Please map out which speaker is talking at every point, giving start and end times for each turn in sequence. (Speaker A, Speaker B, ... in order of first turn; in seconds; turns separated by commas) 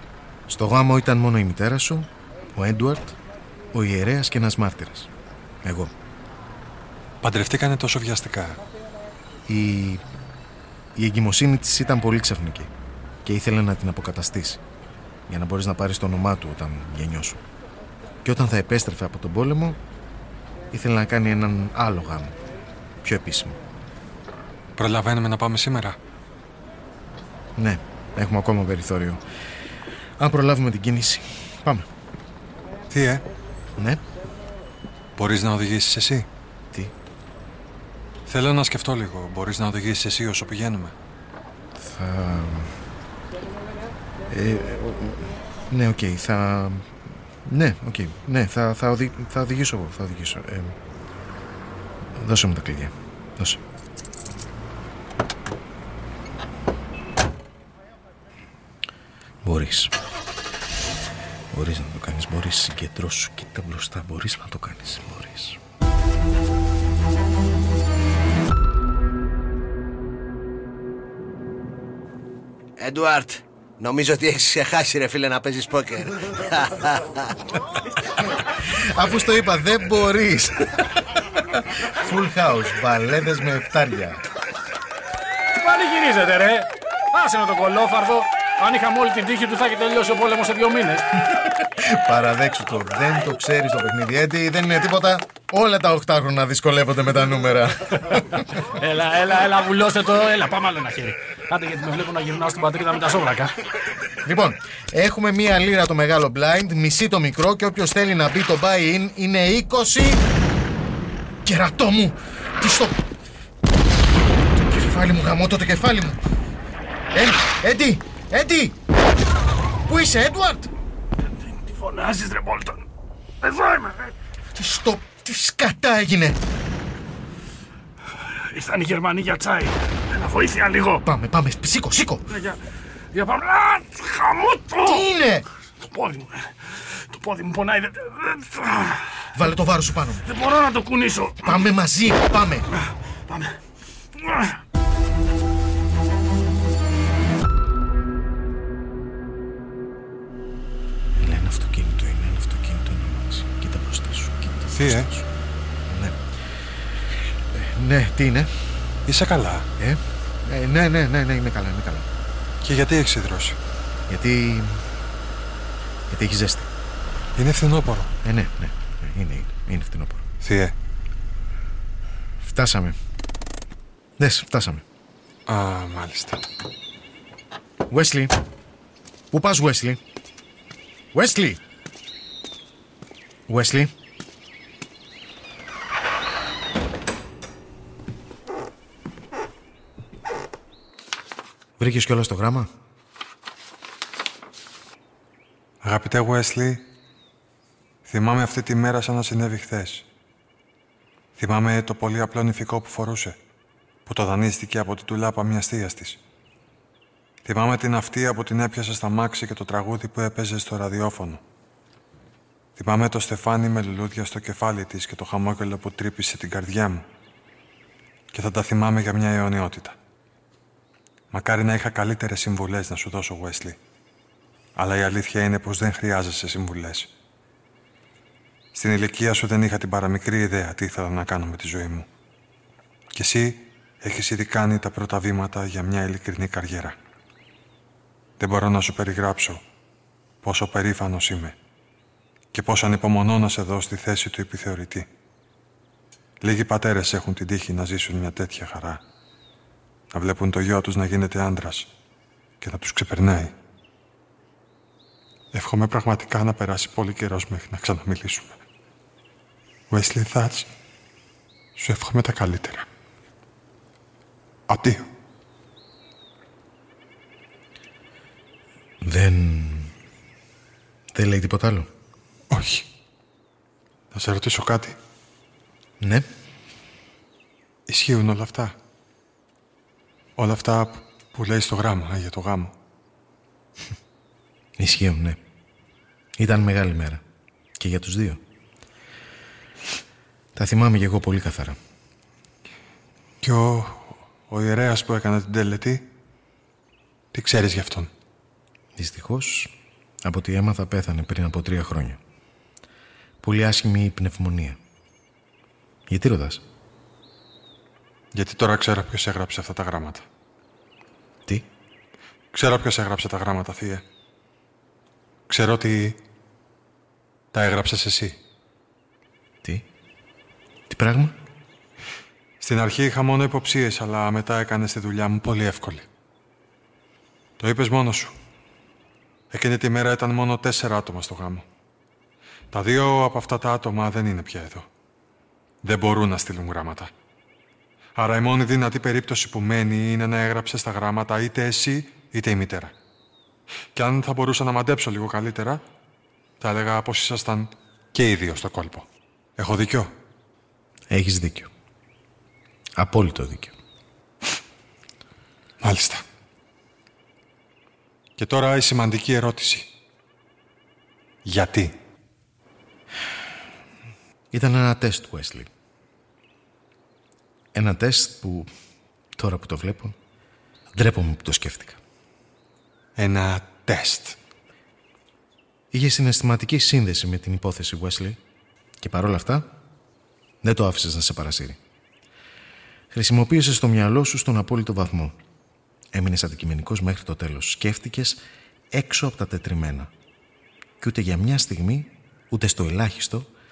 Speaker A: 0.5-3.2, Speaker A: 3.7-5.1, Speaker A: 5.6-5.9, Speaker B: 7.2-8.6, Speaker A: 9.5-10.0, Speaker A: 10.9-12.7, Speaker A: 13.2-14.6, Speaker A: 15.3-17.4, Speaker A: 18.2-19.8, Speaker A: 20.7-22.4, Speaker A: 23.0-23.6, Speaker B: 24.8-26.0, Speaker A: 27.6-29.2, Speaker A: 30.2-31.9, Speaker B: 32.9-33.2, Speaker B: 35.2-36.3, Speaker B: 38.3-40.9, Speaker A: 41.8-42.7, Speaker A: 44.3-46.9, Speaker A: 47.4-50.8, Speaker A: 52.1-53.6, Speaker A: 59.4-59.9, Speaker A: 61.5-65.6, Speaker C: 72.8-77.3, Speaker A: 78.6-81.0, Speaker A: 81.5-84.2, Speaker D: 85.6-91.2, Speaker A: 91.5-98.5, Speaker D: 98.6-103.5, Speaker A: 104.2-110.2, Speaker A: 111.4-113.0, Speaker A: 114.7-116.2, Speaker A: 117.1-118.8, Speaker A: 119.8-120.7, Speaker D: 121.2-122.8, Speaker D: 123.4-124.1, Speaker A: 124.5-126.4, Speaker D: 128.2-131.0, Speaker A: 131.0-132.3, Speaker D: 132.3-132.6, Speaker D: 133.1-135.0, Speaker A: 134.8-135.5, Speaker D: 135.8-139.3, Speaker A: 139.3-140.2, Speaker D: 140.2-141.6, Speaker A: 141.4-142.7, Speaker D: 143.3-143.6, Speaker D: 144.1-144.6, Speaker A: 151.2-155.3, Speaker B: 154.7-155.1, Speaker A: 155.9-156.3, Speaker A: 157.5-158.8, Speaker B: 159.1-159.7, Speaker A: 159.8-162.1, Speaker B: 162.6-163.6, Speaker A: 164.1-164.8, Speaker A: 166.1-166.7, Speaker B: 167.3-168.1, Speaker A: 168.2-170.2, Speaker B: 170.4-170.7, Speaker A: 172.4-172.9, Speaker A: 174.2-174.8, Speaker B: 175.5-176.4, Speaker A: 177.9-178.3, Speaker A: 179.3-180.0, Speaker A: 181.1-181.6, Speaker A: 183.5-183.9, Speaker A: 191.8-192.7, Speaker B: 195.8-196.8, Speaker B: 198.1-200.1, Speaker B: 201.4-203.4, Speaker B: 204.1-206.2, Speaker B: 207.4-211.4, Speaker B: 212.8-217.0, Speaker B: 218.3-219.9, Speaker B: 221.3-223.8, Speaker B: 224.8-227.1, Speaker B: 228.7-232.1, Speaker B: 233.1-236.9, Speaker B: 238.4-239.6, Speaker B: 240.4-241.6, Speaker B: 242.5-245.1, Speaker B: 246.4-249.0, Speaker B: 250.1-251.9, Speaker B: 252.6-253.5, Speaker B: 255.5-258.6, Speaker B: 259.9-260.7, Speaker B: 261.8-262.9, Speaker B: 264.7-265.1, Speaker A: 269.0-269.9, Speaker A: 271.1-271.9, Speaker B: 272.5-272.9, Speaker B: 274.1-274.9, Speaker A: 276.0-276.3, Speaker B: 277.9-278.7, Speaker B: 280.4-282.7, Speaker A: 284.8-285.4, Speaker A: 286.4-287.2, Speaker A: 287.8-288.4, Speaker A: 290.5-291.8, Speaker B: 293.4-296.1, Speaker B: 297.3-298.1, Speaker A: 298.9-299.7, Speaker A: 300.2-302.2, Speaker A: 303.4-304.8, Speaker A: 306.1-306.6, Speaker B: 308.3-310.2, Speaker B: 312.5-314.0, Speaker B: 315.5-316.2, Speaker B: 317.5-318.4, Speaker A: 320.9-321.4, Speaker B: 322.6-326.1, Speaker B: 327.6-328.3, Speaker B: 329.5-331.6, Speaker B: 332.7-334.9, Speaker B: 335.8-337.1, Speaker B: 338.1-342.9, Speaker B: 343.9-345.8, Speaker B: 346.6-350.1, Speaker A: 351.1-351.7, Speaker A: 353.0-353.7, Speaker B: 355.8-356.2, Speaker B: 358.4-359.9, Speaker B: 361.4-361.9, Speaker A: 364.5-365.7, Speaker A: 367.7-368.7, Speaker A: 369.4-370.1, Speaker A: 370.9-372.0, Speaker B: 373.2-374.4, Speaker A: 375.9-378.4, Speaker A: 379.0-379.7, Speaker A: 380.6-381.8, Speaker A: 383.1-385.4, Speaker A: 386.1-388.4, Speaker A: 388.9-390.1, Speaker A: 391.0-393.5